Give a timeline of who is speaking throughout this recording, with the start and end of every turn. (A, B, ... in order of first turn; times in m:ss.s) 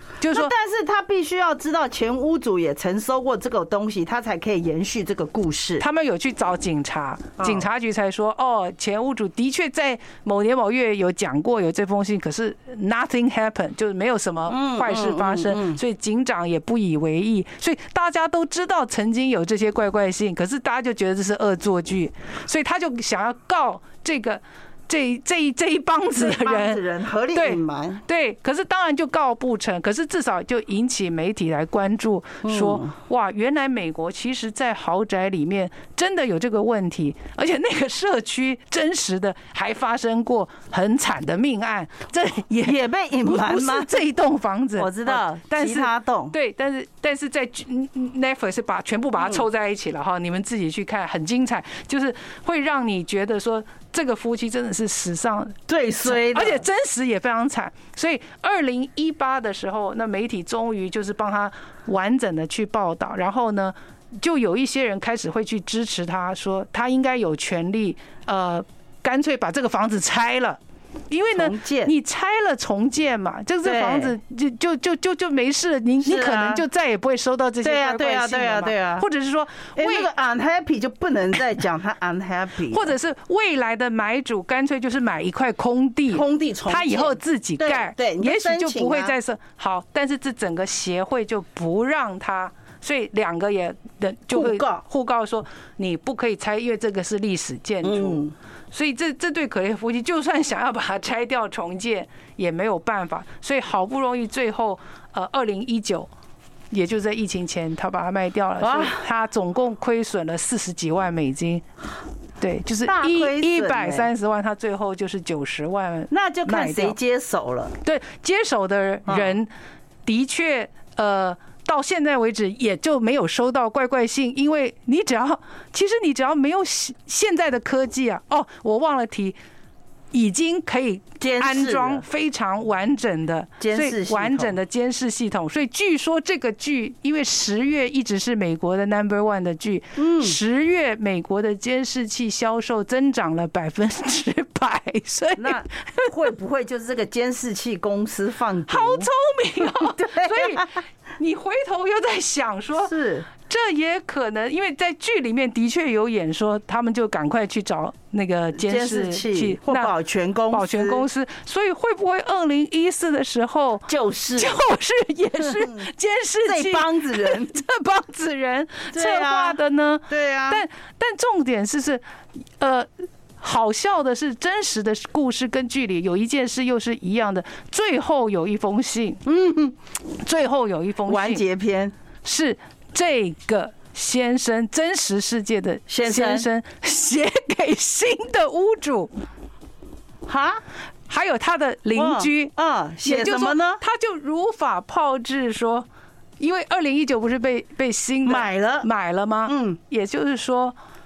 0:00.2-0:00.5 A
0:00.3-0:05.8 B
0:05.8-0:26.8 A
0:07.4-0:07.7 B
0:14.5-0:15.8 B
0:26.2-0:28.0 B
0:27.3-1:20.1 A
0:32.4-0:32.9 B
0:42.6-0:44.0 B
0:44.8-0:46.4 B
0:55.7-0:56.6 B
1:11.3-1:11.9 B
1:13.6-1:14.1 B
1:16.0-1:16.6 B
1:17.6-1:19.1 B
1:19.8-1:22.9 B
1:22.7-1:46.1 A
1:26.1-1:29.2 B
1:34.3-1:34.8 B
1:37.8-1:38.4 B
1:46.7-1:51.7 A
1:48.6-1:49.0 B
1:52.4-1:57.0 A
1:52.9-1:54.1 B
1:56.1-1:57.7 B
1:57.8-1:59.5 A
1:59.1-1:59.4 B
2:00.0-2:09.4 A
2:10.1-2:26.1 A
2:11.2-2:12.0 B
2:13.6-2:14.6 B
2:20.0-2:20.4 B
2:25.4-2:29.1 B
2:28.7-2:39.9 A
2:29.6-2:30.8 B
2:32.8-2:33.3 B
2:38.5-2:41.0 B
2:40.5-2:52.0 A
2:43.9-2:44.6 B
2:45.4-2:45.9 B
2:46.4-2:47.6 B
2:48.9-2:50.6 B
2:52.6-2:59.2 A
2:59.2-2:59.8 B
3:00.1-3:01.4 A
3:01.1-3:01.9 B
3:02.2-3:09.1 A
3:05.9-3:06.5 B
3:10.3-3:10.6 B
3:11.1-3:12.5 A
3:12.0-3:13.8 B
3:13.0-3:15.9 A
3:16.4-3:20.8 A
3:18.2-3:18.9 B
3:19.5-3:19.8 B